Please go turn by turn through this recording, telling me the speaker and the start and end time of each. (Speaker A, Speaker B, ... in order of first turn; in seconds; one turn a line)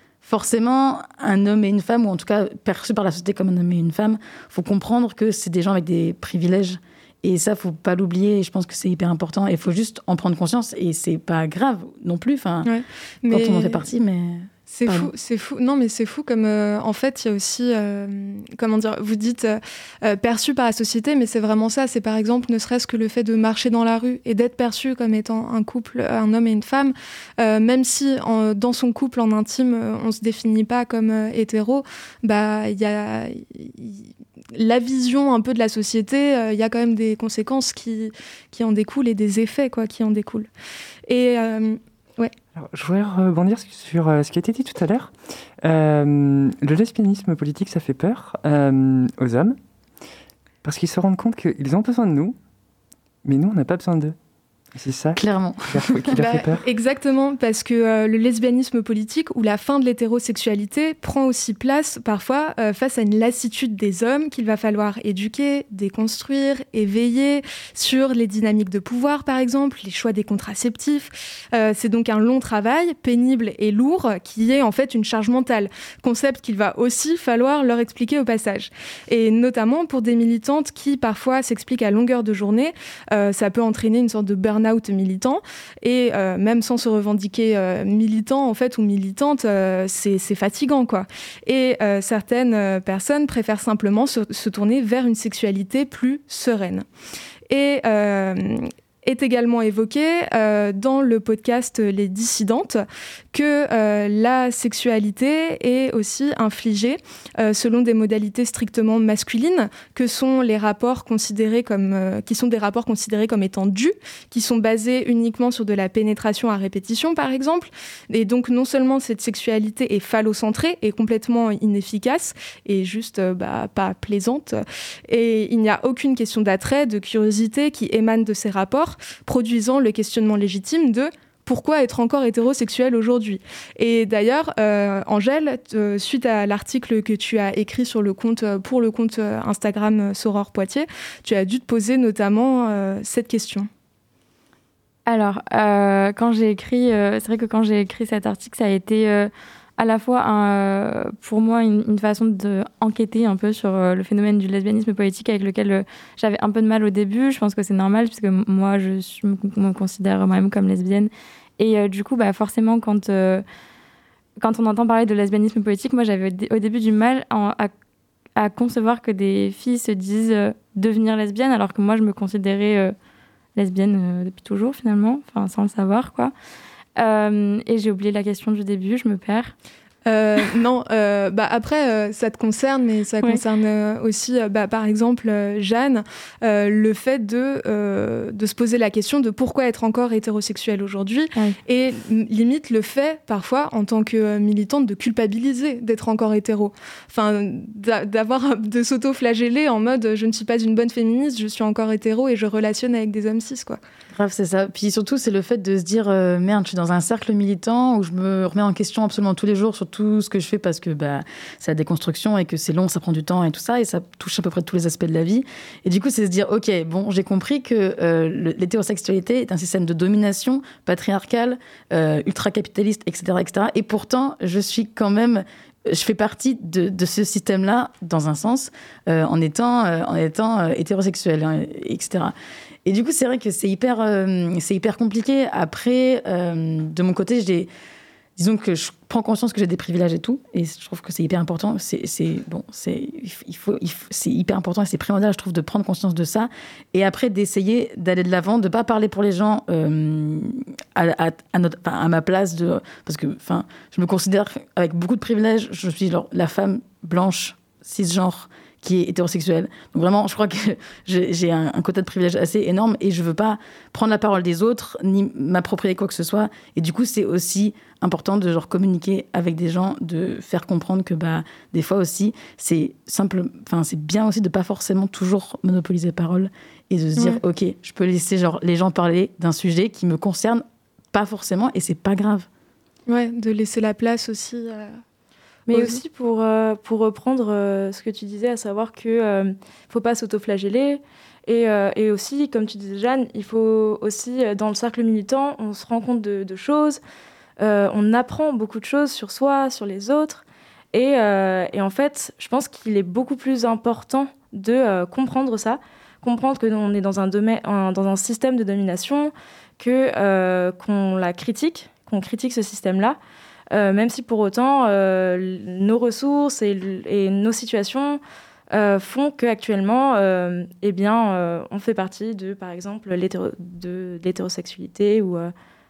Speaker A: 0.2-12.7
Speaker B: 12.7-13.8
Speaker A: 13.3-15.1
Speaker B: 14.7-40.5
Speaker B: 41.1-42.3
Speaker C: 42.5-49.6
Speaker C: 50.6-52.4
Speaker C: 53.2-54.1
Speaker C: 54.7-56.6
Speaker A: 55.2-56.2
Speaker B: 56.2-96.8
Speaker B: 97.5-143.7
Speaker D: 145.1-163.4
Speaker D: 164.4-167.7
Speaker D: 168.3-172.9
Speaker D: 173.6-176.3
Speaker D: 177.0-179.5
Speaker B: 180.1-203.8
Speaker A: 204.1-232.3
Speaker A: 232.8-237.7
Speaker A: 238.4-282.5
Speaker B: 277.2-277.4
Speaker B: 283.1-285.0
Speaker A: 285.7-286.0
Speaker E: 285.7-297.0
Speaker E: 297.6-313.2
Speaker E: 313.7-325.5